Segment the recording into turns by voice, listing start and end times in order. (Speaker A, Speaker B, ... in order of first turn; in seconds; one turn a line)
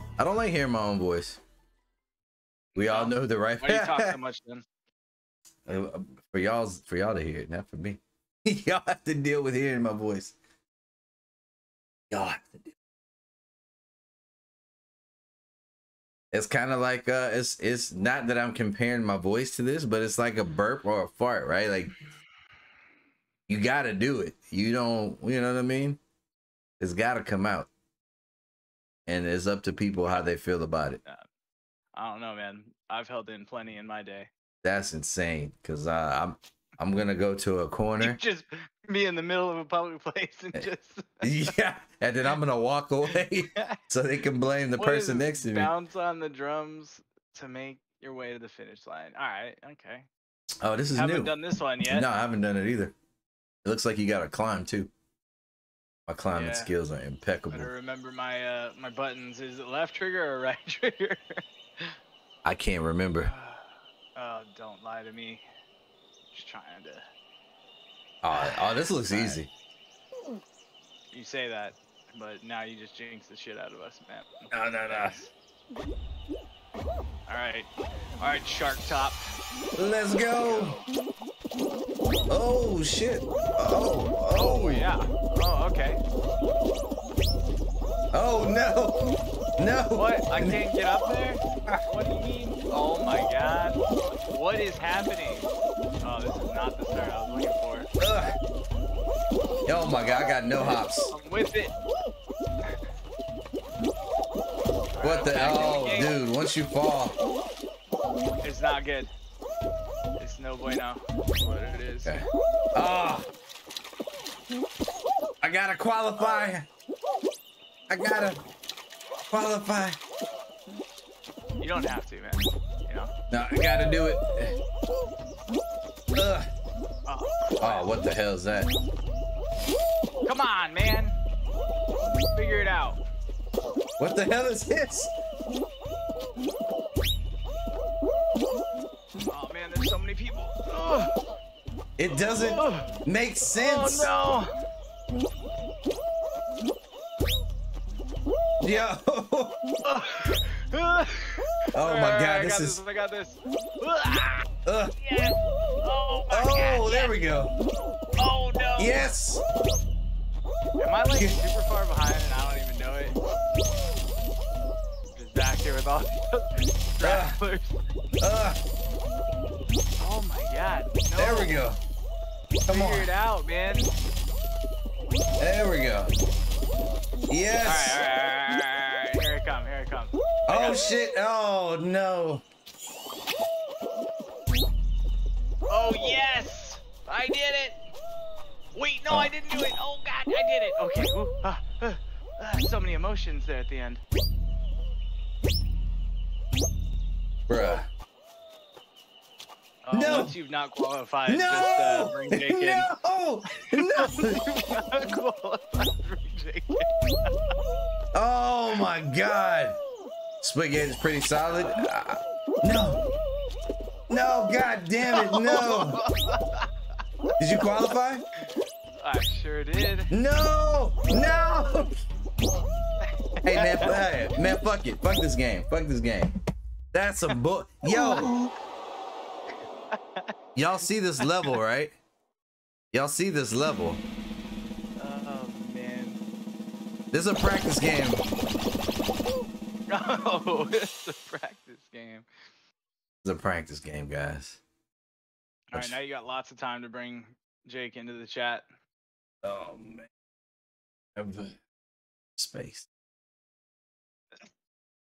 Speaker A: 0.2-1.4
Speaker B: 2.8-4.7
Speaker A: 2.8-4.2
Speaker A: 5.7-10.3
Speaker A: 12.1-12.7
Speaker A: 16.3-22.0
Speaker A: 23.5-26.0
Speaker A: 26.8-27.7
Speaker A: 29.1-31.0
Speaker B: 31.9-34.3
Speaker A: 34.6-38.2
Speaker B: 38.0-41.5
Speaker A: 41.2-45.7
Speaker B: 43.1-43.8
Speaker B: 44.8-50.1
Speaker A: 50.6-51.3
Speaker B: 51.0-52.1
Speaker A: 51.9-52.9
Speaker A: 53.6-54.9
Speaker A: 56.1-57.7
Speaker B: 56.3-56.7
Speaker B: 57.5-62.0
Speaker A: 62.4-63.3
Speaker B: 63.2-65.4
Speaker B: 66.3-67.0
Speaker A: 68.2-69.5
Speaker B: 68.3-69.4
Speaker B: 71.1-75.3
Speaker A: 74.5-75.2
Speaker B: 77.3-79.2
Speaker A: 79.8-80.8
Speaker B: 80.3-80.9
Speaker A: 82.3-84.9
Speaker B: 84.3-86.0
Speaker A: 88.1-90.6
Speaker B: 89.9-95.5
Speaker B: 96.0-97.9
Speaker A: 98.0-98.3
Speaker A: 99.7-101.1
Speaker B: 100.6-101.8
Speaker B: 104.9-106.2
Speaker A: 105.0-107.2
Speaker B: 108.4-109.1
Speaker B: 110.2-112.2
Speaker A: 112.0-113.3
Speaker A: 115.4-116.7
Speaker A: 117.9-118.4
Speaker A: 119.3-120.0
Speaker B: 121.6-123.1
Speaker A: 123.3-124.6
Speaker A: 126.1-126.5
Speaker B: 127.1-127.9
Speaker A: 127.6-128.7
Speaker B: 130.2-131.2
Speaker B: 132.3-133.0
Speaker A: 134.0-135.1
Speaker B: 139.3-141.1
Speaker A: 142.0-144.2
Speaker B: 142.1-142.9
Speaker B: 143.5-144.5
Speaker A: 148.6-149.6
Speaker B: 149.8-157.2
Speaker A: 151.8-152.8
Speaker A: 154.7-154.9
Speaker A: 156.3-157.5
Speaker B: 158.2-159.1
Speaker A: 158.8-159.4
Speaker B: 160.8-163.2
Speaker B: 165.1-167.8
Speaker A: 167.0-167.4
Speaker A: 168.2-168.6
Speaker B: 170.0-171.6
Speaker A: 171.2-171.8
Speaker A: 172.7-173.1
Speaker B: 172.7-174.0
Speaker A: 175.4-176.1
Speaker A: 177.3-178.0
Speaker B: 177.7-180.9
Speaker A: 180.5-182.4
Speaker B: 185.7-187.8
Speaker B: 188.8-194.0
Speaker A: 197.5-197.9
Speaker B: 199.8-202.9
Speaker A: 199.9-200.4
Speaker A: 201.3-204.4
Speaker B: 203.5-207.6
Speaker A: 208.1-209.8
Speaker A: 210.4-213.0
Speaker B: 211.5-211.9
Speaker A: 214.1-216.0
Speaker B: 215.1-216.7
Speaker A: 217.4-218.2
Speaker B: 218.4-220.1
Speaker A: 220.1-221.9
Speaker B: 223.0-224.0
Speaker A: 223.4-226.3
Speaker A: 226.9-228.3
Speaker B: 227.9-228.5
Speaker B: 229.9-230.3
Speaker A: 230.6-232.0
Speaker B: 231.2-231.6
Speaker A: 232.9-234.0
Speaker B: 235.0-236.2
Speaker A: 237.1-238.2
Speaker B: 239.9-242.3
Speaker A: 243.2-244.6
Speaker B: 245.7-248.7
Speaker A: 249.4-250.1
Speaker A: 251.2-251.6
Speaker A: 252.4-252.9